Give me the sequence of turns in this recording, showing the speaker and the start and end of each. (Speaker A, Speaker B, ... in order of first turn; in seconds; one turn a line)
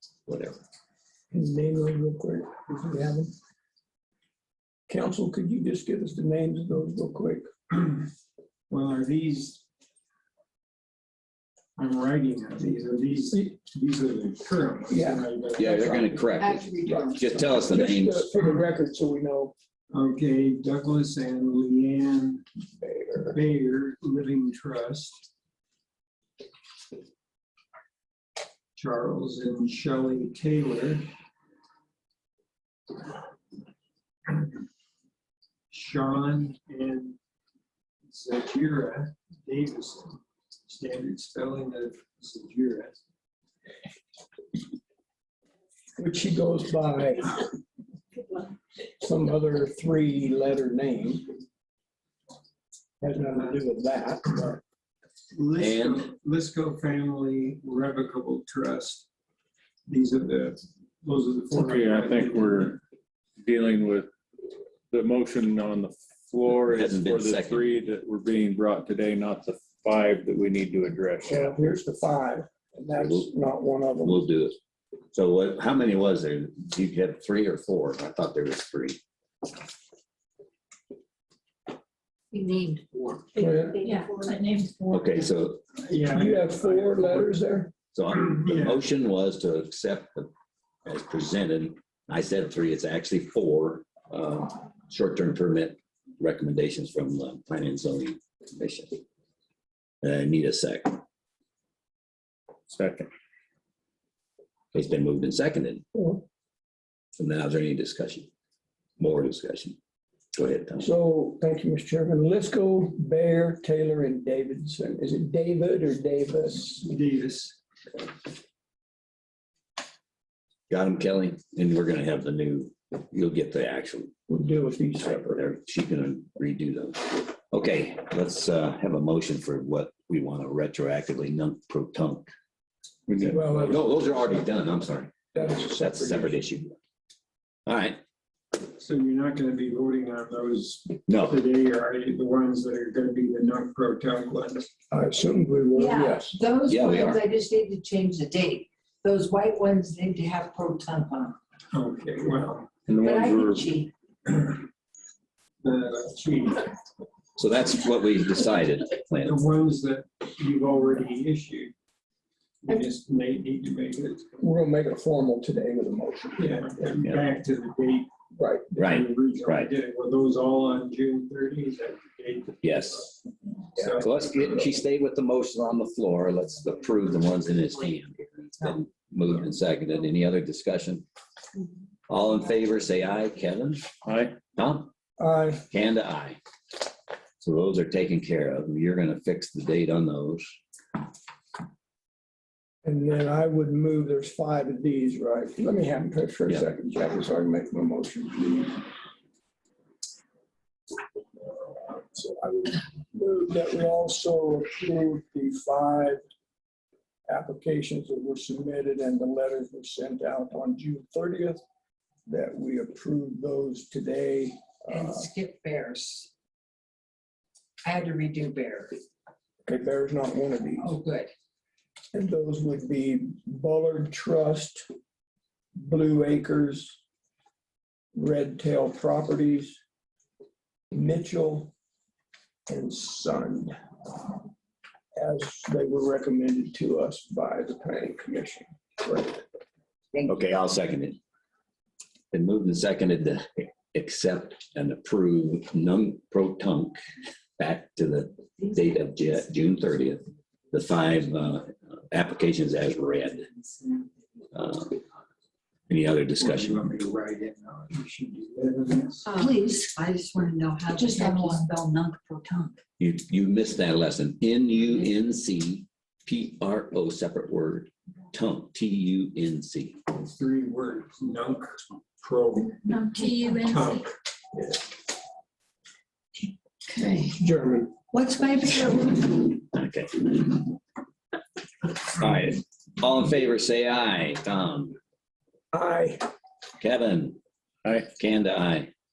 Speaker A: 0.3-0.6
Speaker B: 1.3-3.3
Speaker B: 4.9-7.5
Speaker C: 8.7-9.6
Speaker C: 11.8-16.1
Speaker B: 14.9-16.2
Speaker A: 15.6-18.3
Speaker D: 16.4-17.2
Speaker B: 16.7-19.5
Speaker C: 19.9-22.4
Speaker B: 22.8-23.4
Speaker C: 23.3-25.2
Speaker C: 28.8-31.1
Speaker C: 35.7-37.2
Speaker C: 38.1-43.0
Speaker B: 46.0-47.4
Speaker B: 49.0-51.3
Speaker B: 53.0-54.6
Speaker C: 53.3-53.6
Speaker C: 55.3-59.1
Speaker A: 55.6-56.1
Speaker C: 59.9-62.8
Speaker E: 61.5-62.8
Speaker E: 63.4-64.1
Speaker E: 64.9-71.6
Speaker A: 66.7-67.7
Speaker B: 71.2-74.2
Speaker A: 72.9-73.3
Speaker A: 74.0-74.5
Speaker A: 75.1-79.0
Speaker D: 82.3-84.3
Speaker B: 83.4-83.8
Speaker F: 83.4-85.3
Speaker A: 84.9-85.6
Speaker C: 85.8-87.3
Speaker B: 86.1-87.7
Speaker A: 87.9-90.3
Speaker C: 88.4-88.8
Speaker A: 90.8-99.0
Speaker A: 100.0-101.0
Speaker E: 102.7-103.1
Speaker A: 104.7-105.8
Speaker B: 105.9-106.2
Speaker A: 107.2-108.3
Speaker A: 109.0-109.8
Speaker A: 110.3-110.9
Speaker B: 110.8-116.8
Speaker C: 116.8-117.5
Speaker A: 120.7-124.1
Speaker B: 124.3-125.5
Speaker A: 125.3-132.3
Speaker E: 133.1-133.7
Speaker A: 133.1-135.1
Speaker B: 133.3-134.3
Speaker B: 135.3-136.4
Speaker A: 135.7-136.8
Speaker A: 137.7-138.0
Speaker C: 138.8-144.7
Speaker A: 141.1-141.4
Speaker B: 144.9-146.4
Speaker D: 145.8-151.4
Speaker A: 146.7-147.2
Speaker C: 151.7-152.7
Speaker E: 152.9-153.7
Speaker D: 153.0-153.9
Speaker C: 155.6-156.7
Speaker A: 157.4-159.4
Speaker C: 159.2-161.7
Speaker C: 162.6-164.3
Speaker B: 164.4-166.7
Speaker C: 166.4-168.1
Speaker B: 168.4-168.7
Speaker C: 168.7-173.2
Speaker A: 168.8-169.7
Speaker A: 172.6-173.1
Speaker C: 173.8-174.2
Speaker A: 173.8-181.1
Speaker A: 182.1-183.9
Speaker E: 184.0-184.3
Speaker A: 184.6-184.9
Speaker B: 185.2-185.7
Speaker A: 185.7-186.4
Speaker A: 187.4-190.5
Speaker B: 192.8-198.9
Speaker B: 201.6-206.2
Speaker B: 207.3-211.6
Speaker B: 212.3-215.3
Speaker D: 214.9-216.3
Speaker D: 217.8-219.0
Speaker B: 219.7-220.9
Speaker D: 220.8-221.3
Speaker B: 222.1-224.9
Speaker B: 225.8-227.0
Speaker B: 228.1-229.8
Speaker B: 230.9-231.7
Speaker B: 232.7-233.7
Speaker B: 235.2-239.4
Speaker A: 240.2-241.2
Speaker A: 242.3-247.0
Speaker A: 247.6-253.5
Speaker A: 254.5-255.0
Speaker A: 255.9-256.8
Speaker C: 256.4-259.4
Speaker D: 259.3-262.8
Speaker A: 263.0-270.0
Speaker C: 270.1-274.1
Speaker F: 273.1-274.0
Speaker D: 276.9-277.4
Speaker B: 277.3-277.9
Speaker D: 278.1-279.4
Speaker A: 279.7-280.6
Speaker A: 282.1-285.0
Speaker B: 285.7-286.3
Speaker A: 286.8-287.4
Speaker A: 288.1-288.9